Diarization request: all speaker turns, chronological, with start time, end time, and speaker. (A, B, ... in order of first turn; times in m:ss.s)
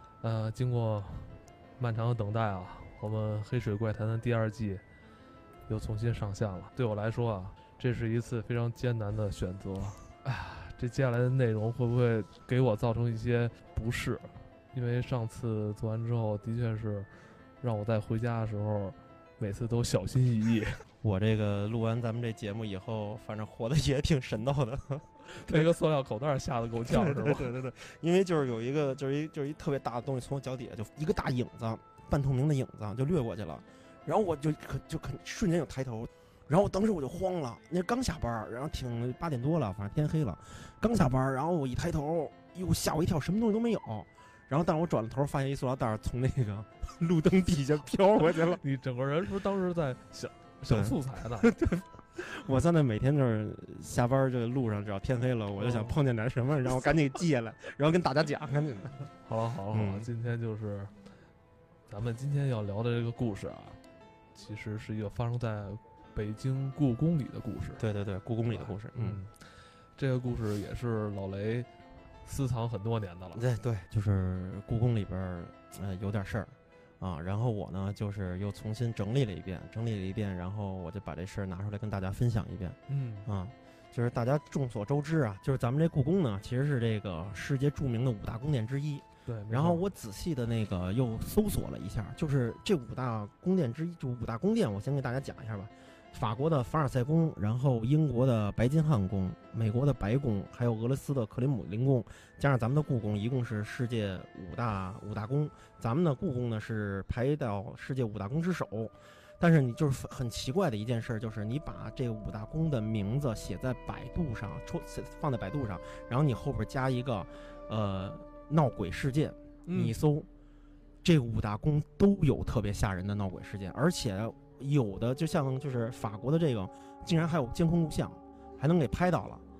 0:00.2-0:04.8 A
0:05.7-0:17.1 A
0:17.6-0:20.8 A
0:21.0-0:25.7 B
0:25.2-0:27.5 A
0:26.8-0:48.6 B
0:48.2-0:51.5 A
0:50.7-0:59.1 B
0:55.6-0:56.0 A
0:59.2-1:00.9 A
0:59.7-1:00.1 B
1:01.9-1:03.8 A
1:04.3-1:07.8 A
1:07.8-1:09.2 B
1:08.4-1:11.7 A
1:12.2-1:13.4 A
1:13.3-2:00.3 B
1:22.9-1:23.3 A
1:29.2-1:29.8 A
1:59.6-2:00.0 A
2:01.0-2:09.4 B